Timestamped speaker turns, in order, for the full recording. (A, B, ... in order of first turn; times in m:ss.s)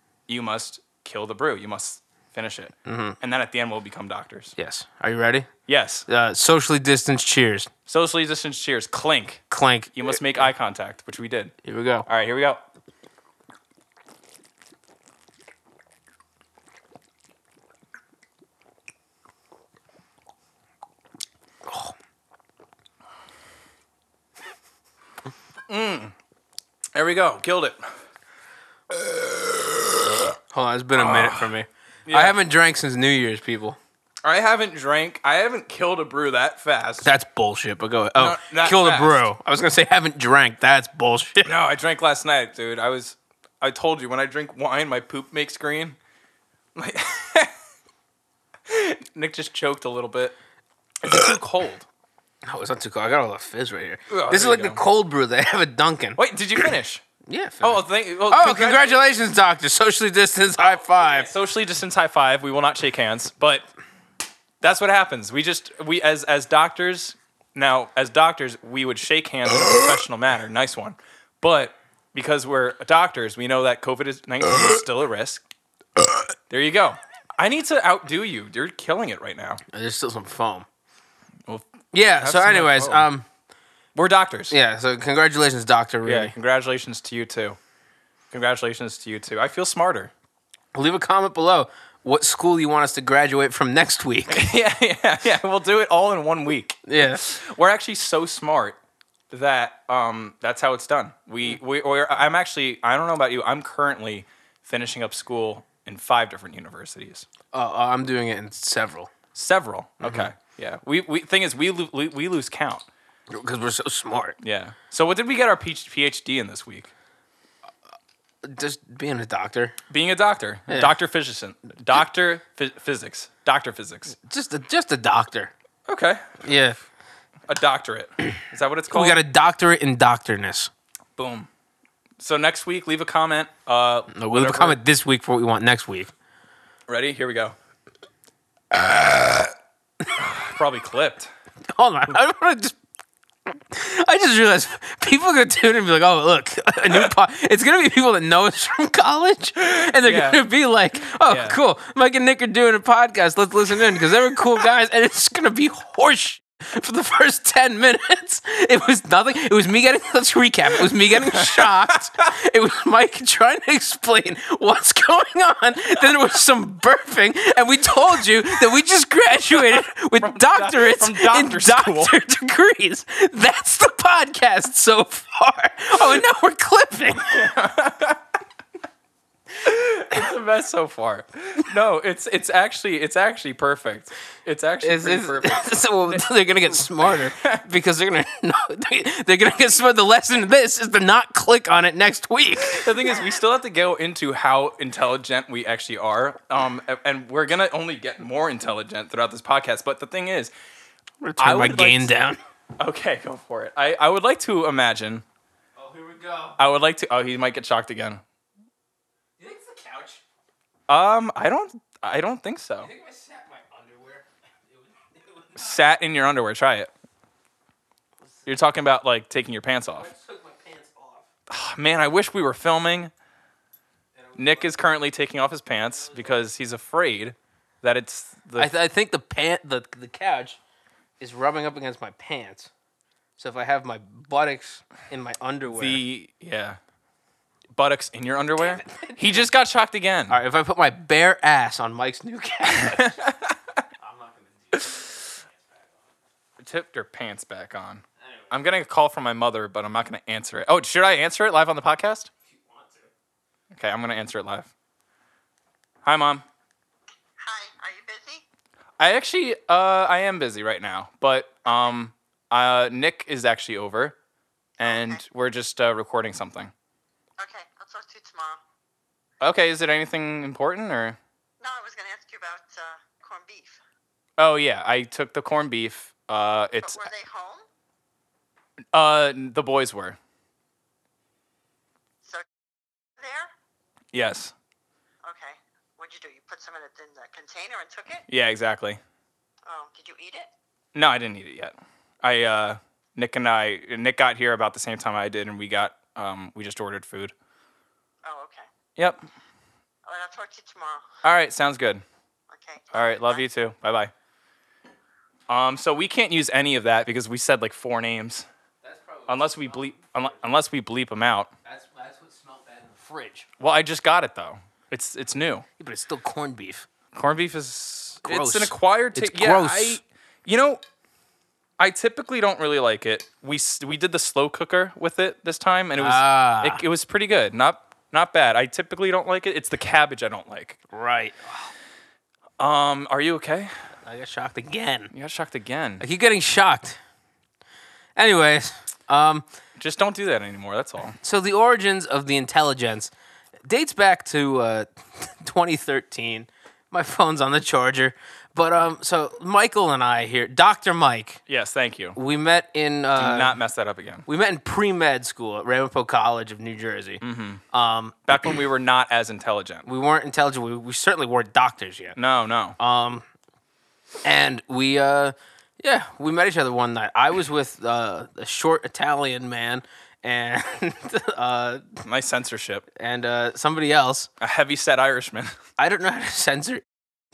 0:00.3-0:04.5 A
0:02.8-0:03.2 B
0:04.6-0:05.5 B
0:05.7-0:06.0 A
0:06.1-0:07.7 B
0:07.9-0:09.4 A
0:09.5-0:10.1 B
0:09.9-0:11.5 A
0:11.6-0:12.1 B
0:12.1-0:12.6 A
0:21.7-0:21.9 B
0:25.7-0:26.1 A
0:26.9-0:27.9 A
0:28.9-0:30.3 A
0:30.5-0:33.8 B
0:31.0-0:31.5 A
0:32.1-0:32.4 A
0:34.2-0:37.1 A
0:37.0-0:41.5 B
0:38.2-0:39.3 A
0:41.4-0:46.0 A
0:46.7-0:47.5 A
0:48.7-0:50.4 A
0:51.0-0:51.8 A
0:52.4-0:56.2 B
0:54.1-0:54.8 A
0:56.2-0:57.0 A
0:57.3-1:01.3 B
0:57.6-0:59.0 A
1:01.2-1:03.6 A
1:04.6-1:15.4 A
1:16.5-1:19.6 A
1:19.7-1:20.6 B
1:21.5-1:23.1 A
1:21.9-1:23.2 B
1:23.9-1:24.5 A
1:24.5-1:26.3 B
1:26.0-1:27.6 A
1:28.3-1:30.1 A
1:30.7-1:34.5 B
1:34.3-1:38.8 A
1:36.8-1:37.2 B
1:39.3-1:47.2 A
1:47.5-1:49.1 B
1:49.3-1:52.8 A
1:50.0-1:50.3 B
1:53.3-1:54.4 B
1:54.4-1:56.9 A
1:58.4-1:59.8 B
1:59.9-2:04.2 A
2:00.7-2:00.9 B
2:04.2-2:05.5 B
2:05.8-2:06.3 A
2:06.4-2:06.8 B
2:07.5-2:09.2 A
2:08.9-2:10.7 B
2:11.2-2:11.5 A
2:12.2-2:14.8 A
2:14.1-2:16.1 B
2:16.9-2:17.5 A
2:20.2-2:21.3 A
2:21.7-2:22.8 B
2:23.5-2:57.5 B
2:29.8-2:30.4 A
2:31.2-2:31.6 A
2:41.1-2:41.7 A
2:49.8-2:52.2 A
2:57.2-2:58.2 A
2:59.6-3:06.2 A
3:04.8-3:12.9 B
3:07.0-3:07.6 A
3:12.6-3:20.5 A
3:21.2-3:22.4 B
3:21.4-3:22.1 A
3:22.8-3:25.2 A
3:25.8-3:26.6 B
3:26.6-3:28.2 A
3:29.4-3:30.2 B
3:30.9-3:32.9 A
3:32.8-3:35.8 B
3:35.6-3:36.9 A
3:38.4-3:40.1 A
3:39.9-3:41.3 B
3:41.5-3:43.1 A
3:44.2-3:44.8 B
3:44.4-3:48.7 A
3:45.9-3:46.5 B
3:48.6-3:50.6 B
3:51.2-3:52.7 B
3:53.4-3:56.0 B
3:55.7-3:56.8 A
3:57.7-4:00.4 A
3:58.6-3:59.5 B
4:00.3-4:03.2 B
4:02.7-4:03.6 A
4:04.0-4:06.1 B
4:06.6-4:12.3 A
4:08.2-4:08.5 B
4:12.5-4:13.1 B
4:13.7-4:14.7 A
4:16.0-4:16.4 A
4:17.4-4:18.4 C
4:19.0-4:24.1 A
4:24.8-4:25.2 C
4:24.8-4:26.7 A
4:27.4-4:28.6 C
4:29.4-4:31.2 A
4:31.6-4:33.8 C
4:34.4-4:37.1 A
4:36.8-4:37.6 C
4:38.9-4:40.2 A
4:43.2-4:43.5 C
4:44.1-4:44.5 A
4:45.2-4:48.2 C
4:48.3-4:49.0 A
4:49.6-4:50.5 C
4:50.9-4:57.3 A
4:58.2-4:58.7 C
5:00.0-5:01.1 C
5:01.2-5:02.0 A
5:02.5-5:03.5 C
5:02.9-5:04.1 A
5:05.5-5:08.5 A
5:08.8-5:10.3 B
5:09.3-5:11.5 A
5:11.6-5:13.5 B
5:13.6-5:15.6 A
5:15.8-5:16.9 B
5:17.1-5:20.8 A
5:18.2-5:20.0 B
5:21.8-5:30.8 A
5:26.0-5:26.8 B
5:30.9-5:31.7 B
5:32.6-5:33.7 A
5:34.0-5:35.1 B
5:35.1-5:36.0 A
5:36.0-5:37.0 B
5:38.2-5:39.4 B
5:39.8-5:41.2 A
5:41.2-5:43.1 B
5:43.7-5:51.4 B
5:51.5-5:52.2 A
5:52.1-5:53.6 B
5:53.1-5:54.2 A
5:54.2-5:58.5 B
5:57.2-5:57.6 A
5:58.3-5:59.8 A
5:59.8-6:02.2 B
6:02.2-6:02.8 A
6:02.8-6:03.2 B
6:04.2-6:12.0 B
6:12.0-6:12.8 A
6:13.0-6:14.3 B
6:14.4-6:15.6 A
6:15.8-6:16.8 B